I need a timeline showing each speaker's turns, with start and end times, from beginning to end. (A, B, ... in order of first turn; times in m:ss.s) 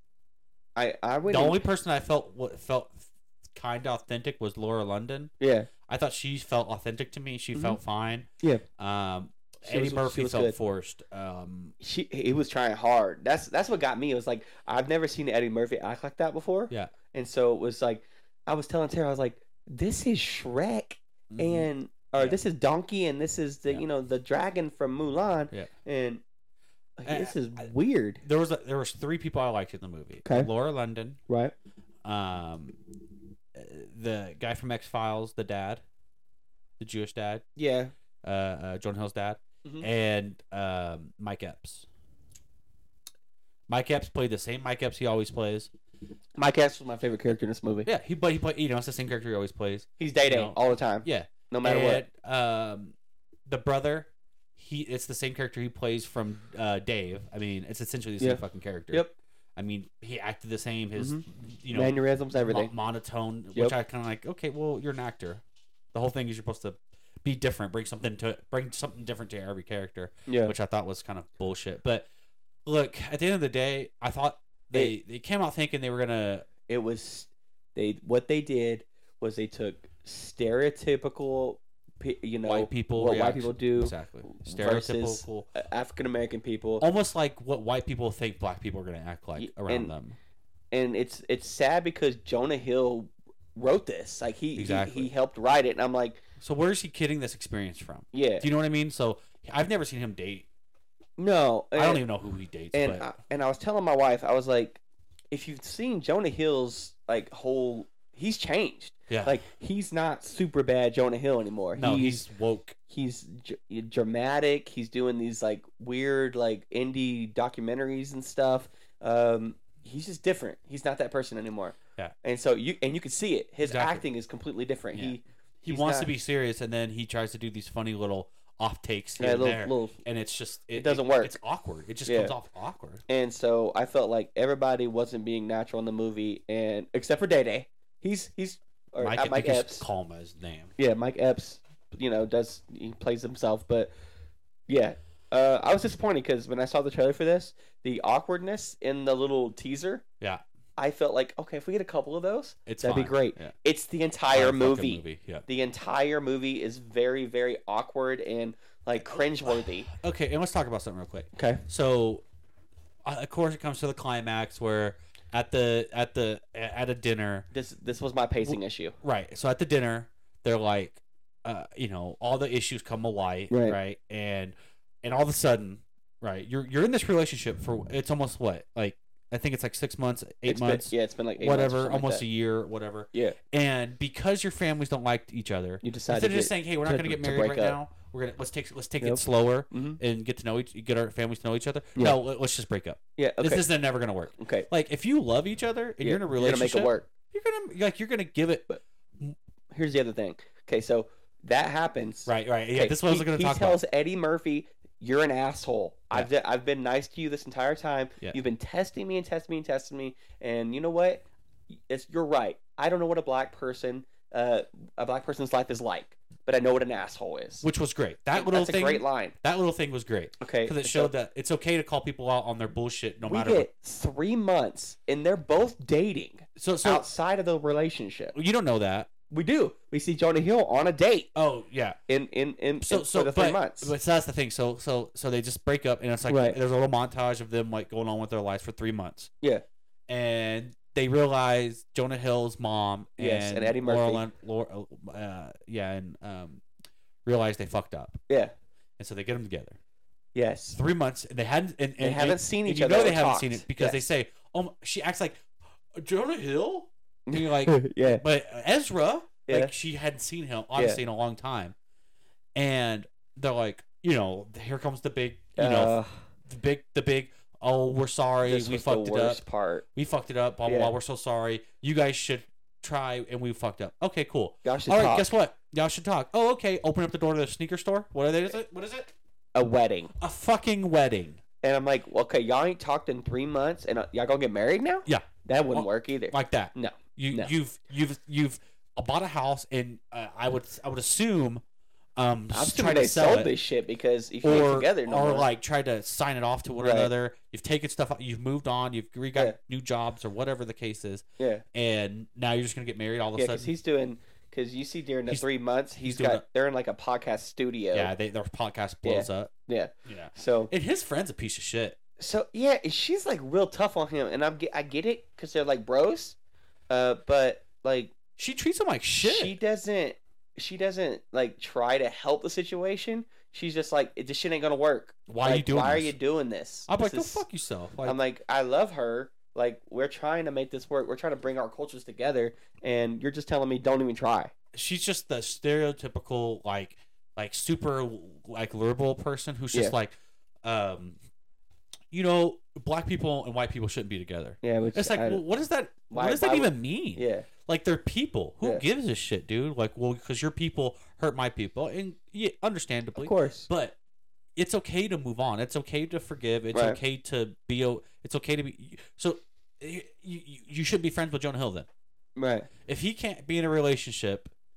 0:00.8-0:01.6 A
0:01.3-0:05.3 B
0:05.4-0:05.7 A
0:05.8-0:08.3 B
0:07.5-0:07.8 A
0:08.8-0:11.7 B
0:09.6-0:10.5 A
0:11.8-0:26.2 A
0:21.3-0:22.4 B
0:27.0-0:28.2 A
0:27.0-0:27.6 B
0:28.2-0:31.2 B
0:30.2-0:30.5 A
0:31.3-0:31.5 A
0:32.0-0:32.8 B
0:33.5-0:35.8 B
0:36.8-0:37.4 B
0:37.6-0:37.9 A
0:38.2-0:41.8 B
0:43.7-0:45.7 B
0:46.4-0:47.9 A
0:47.8-0:52.9 B
0:50.0-0:52.0 A
0:53.4-0:59.0 B
0:59.6-1:05.4 B
1:01.0-1:02.7 A
1:05.9-1:12.1 B
1:10.3-1:10.5 A
1:12.6-1:16.5 B
1:16.7-1:26.8 A
1:22.4-1:25.5 B
1:26.8-1:30.2 B
1:29.4-1:29.9 A
1:30.7-1:36.2 A
1:34.6-1:35.1 B
1:36.4-1:40.4 B
1:38.1-1:38.5 A
1:41.2-1:42.0 A
1:41.7-1:43.0 B
1:42.7-1:52.3 A
1:49.1-1:49.4 B
1:51.8-1:52.8 B
1:52.9-2:06.1 A
2:03.6-2:04.0 B
2:04.9-2:13.0 B
2:09.2-2:10.0 A
2:10.7-2:11.3 A
2:12.0-2:12.3 A
2:13.1-2:19.8 A
2:19.0-2:20.7 B
2:20.8-2:23.9 A
2:24.7-2:30.0 A
2:30.8-2:39.9 A
2:32.6-2:33.5 B
2:34.3-2:35.4 B
2:39.0-2:42.2 B
2:41.4-2:41.6 A
2:43.0-2:47.5 B
2:47.5-2:49.0 A
2:48.4-3:18.7 B
2:53.5-2:53.8 A
3:00.4-3:02.2 A
3:05.8-3:07.8 A
3:09.0-3:10.0 A
3:13.2-3:13.6 A
3:14.4-3:14.7 A
3:16.0-3:17.1 A
3:19.7-3:37.6 A
3:22.2-3:23.8 B
3:37.6-3:43.7 B
3:38.3-3:39.3 A
3:40.4-3:41.1 A
3:43.3-3:48.3 A
3:46.6-3:47.1 B
3:48.3-3:49.1 B
3:49.3-3:51.3 A
3:51.3-3:52.0 B
3:52.1-3:53.9 A
3:52.8-3:59.3 B
3:56.3-3:56.6 A
4:00.1-4:06.6 B
4:03.2-4:04.2 A
4:07.2-4:08.2 B
4:09.0-4:09.8 B
4:10.3-4:10.8 A
4:10.7-4:15.4 B
4:12.0-4:14.0 A
4:15.9-4:21.7 B
4:17.3-4:18.2 A
4:19.5-4:19.7 A
4:22.5-4:29.4 B
4:25.6-4:26.3 A
4:28.4-4:29.8 A
4:29.9-4:39.1 B
4:30.6-4:30.9 A
4:34.6-4:35.3 A
4:39.5-4:40.1 A
4:40.2-4:41.4 B
4:41.6-4:47.5 A
4:45.0-4:51.6 B
4:52.2-4:53.5 B
4:52.5-4:55.5 A
4:54.4-5:03.7 B
4:56.8-4:57.1 A
5:01.4-5:01.6 A
5:03.4-5:08.1 A
5:06.0-5:06.4 B
5:07.9-5:09.5 B
5:09.0-5:10.7 A
5:10.0-5:12.0 B
5:12.2-5:16.4 A
5:16.9-5:18.1 A
5:18.4-5:19.6 B
5:19.2-5:27.4 A
5:25.3-5:26.1 B
5:26.9-5:28.2 B
5:28.0-5:34.5 A
5:34.7-5:41.2 B
5:42.1-5:54.0 B
5:44.6-5:45.4 A
5:46.1-5:47.5 A
5:53.2-5:53.7 A
5:54.6-6:01.9 B
5:56.7-5:57.0 A
6:02.4-6:02.7 A
6:02.8-6:04.5 B